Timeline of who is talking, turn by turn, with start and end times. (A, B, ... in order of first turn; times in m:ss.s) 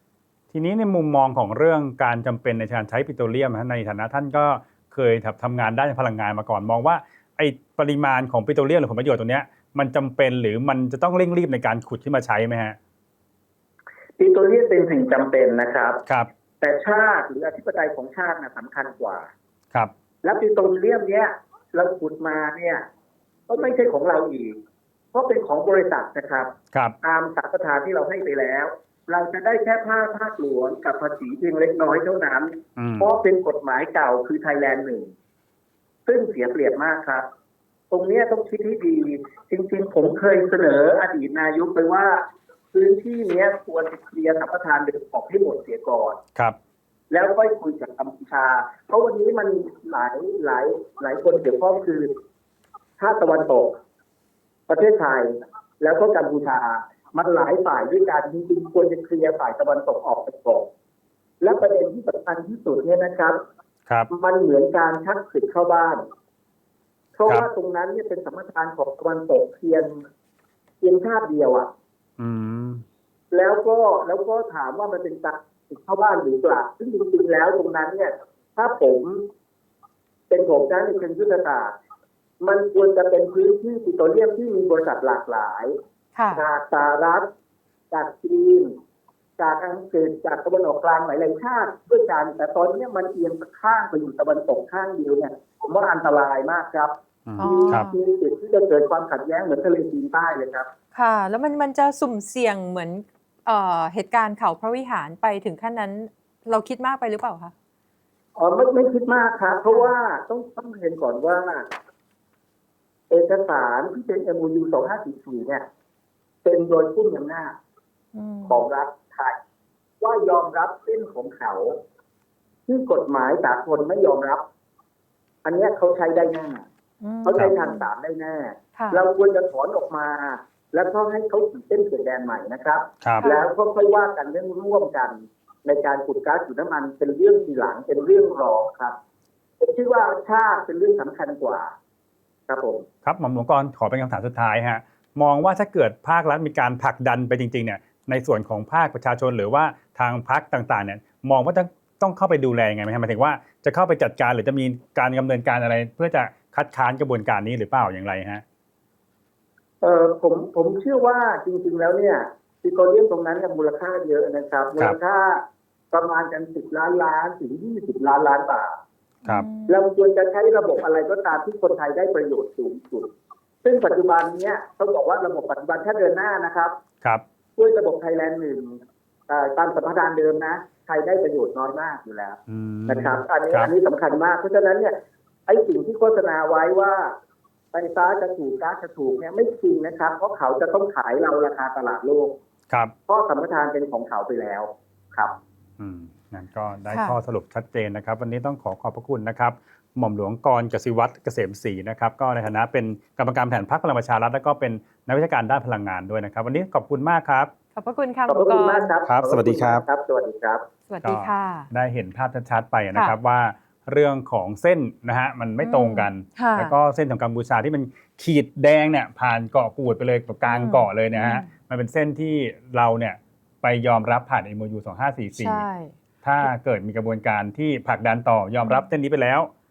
0:00.5-0:12.8 A
0:14.2-0:16.0 B
0:16.6-0:19.3 B
0:20.2-0:22.8 B
0:23.5-0:24.6 B
0:25.1-0:35.1 B
0:32.8-0:33.1 A
0:36.0-0:37.2 B
0:37.9-0:46.2 B
0:47.1-0:52.1 B
0:53.0-0:53.8 B
0:54.7-1:00.7 B
1:01.4-1:03.4 B
1:04.1-1:06.0 B
1:07.2-1:10.0 B
1:10.8-1:11.7 B
1:12.2-1:12.8 A
1:13.3-1:19.2 B
1:20.3-1:21.8 B
1:22.4-1:25.8 B
1:26.2-1:26.4 C
1:26.3-1:27.3 B
1:27.9-1:28.7 B
1:29.4-1:40.7 B
1:37.2-1:37.9 A
1:37.4-1:37.9 C
1:40.9-1:47.5 C
1:48.4-1:51.7 B
1:53.1-1:55.6 B
1:56.4-1:57.5 B
1:58.1-1:58.6 C
1:58.5-1:59.4 B
2:00.0-2:01.8 B
2:02.7-2:04.4 B
2:05.4-2:06.6 B
2:07.0-2:07.8 C
2:07.2-2:19.0 B
2:08.8-2:09.0 C
2:13.2-2:13.5 C
2:19.6-2:21.7 B
2:22.5-2:22.8 B
2:23.0-2:38.4 A
2:39.8-2:48.8 B
2:49.2-2:49.8 C
2:49.7-2:53.1 B
2:53.6-2:56.8 B
2:57.6-3:04.9 B
3:02.5-3:03.7 A
3:05.5-3:07.1 B
3:07.7-3:12.4 B
3:13.1-3:15.4 B
3:15.8-3:27.5 A
3:16.9-3:17.2 C
3:27.8-3:28.9 C
3:28.3-3:30.6 B
3:29.0-3:29.8 A
3:30.9-3:31.7 C
3:31.0-3:45.6 A
3:35.6-3:36.7 C
3:40.5-3:41.5 C
3:45.4-3:45.9 C
3:46.2-3:49.5 A